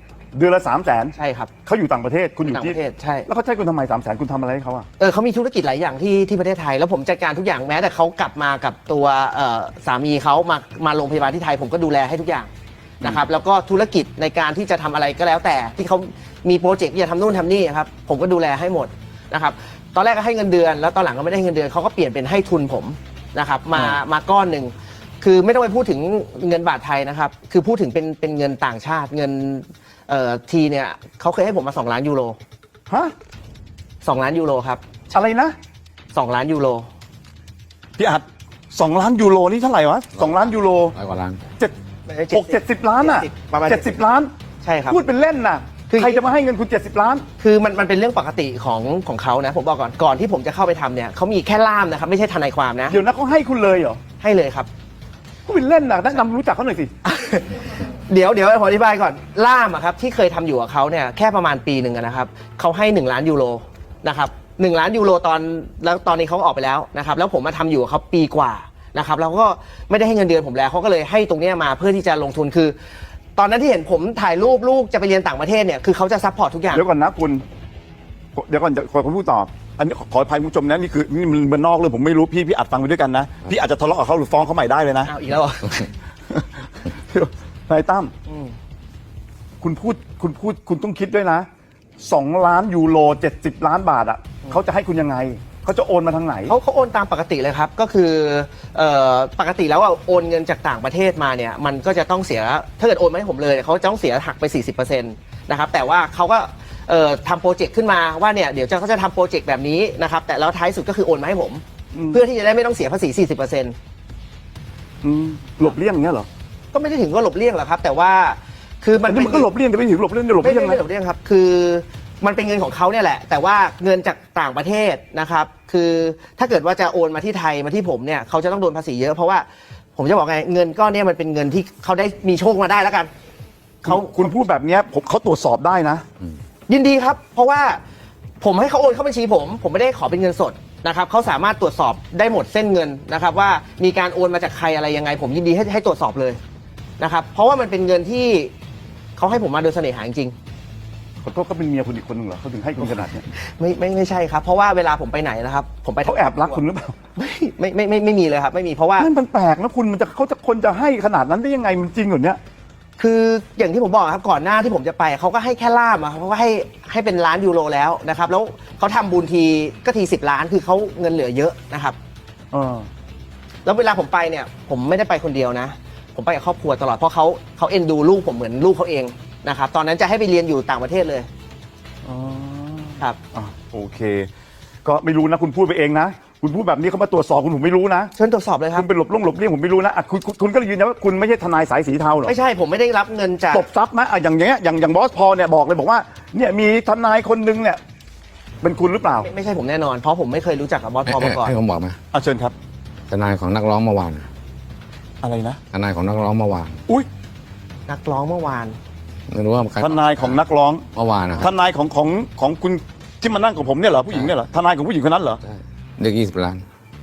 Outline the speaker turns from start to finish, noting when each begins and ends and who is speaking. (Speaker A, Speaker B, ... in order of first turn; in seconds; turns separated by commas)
Speaker A: 0.3-4.9, Speaker B: 1.2-1.5, Speaker B: 2.5-3.3, Speaker B: 5.0-12.5, Speaker B: 13.0-32.4, Speaker A: 32.9-33.1, Speaker B: 34.0-34.9, Speaker A: 35.1-35.5, Speaker B: 36.1-36.9, Speaker A: 38.0-41.0, Speaker C: 41.0-41.4, Speaker B: 42.1-44.0, Speaker A: 42.3-44.3, Speaker B: 44.6-45.0, Speaker A: 44.9-47.3, Speaker B: 45.9-46.2, Speaker B: 47.4-53.0, Speaker A: 52.9-54.0, Speaker B: 54.2-54.7, Speaker A: 55.5-56.9, Speaker B: 57.0-72.8, Speaker B: 73.4-76.8, Speaker A: 76.7-77.4, Speaker A: 78.3-85.1, Speaker B: 85.1-85.9, Speaker A: 86.3-88.1, Speaker B: 88.3-88.5, Speaker A: 89.6-91.5, Speaker A: 92.0-96.5, Speaker B: 96.5-113.8, Speaker A: 111.9-112.2, Speaker A: 115.0-116.3, Speaker B: 116.7-119.5, Speaker A: 119.1-120.8, Speaker B: 120.4-133.1, Speaker B: 133.8-134.1, Speaker A: 133.8-136.1, Speaker B: 136.7-137.8, Speaker B: 138.4-146.4, Speaker B: 147.0-148.5, Speaker B: 149.2-150.3, Speaker A: 151.2-153.3, Speaker B: 153.3-156.6, Speaker A: 156.0-157.0, Speaker B: 157.2-159.1, Speaker A: 159.0-162.4, Speaker B: 163.0-172.0, Speaker A: 172.5-172.9, Speaker B: 173.7-181.3, Speaker A: 182.0-184.3, Speaker A: 184.8-188.1, Speaker B: 188.2-188.9, Speaker A: 188.8-192.3, Speaker B: 192.2-193.7, Speaker A: 193.5-197.8, Speaker A: 198.6-199.3, Speaker B: 199.2-201.6, Speaker C: 201.1-202.0, Speaker A: 202.1-202.5, Speaker C: 203.1-204.3, Speaker A: 205.2-205.6, Speaker C: 205.7-206.8, Speaker B: 207.9-208.8, Speaker C: 209.3-210.0, Speaker A: 209.8-215.4, Speaker C: 210.9-211.5, Speaker C: 215.5-216.7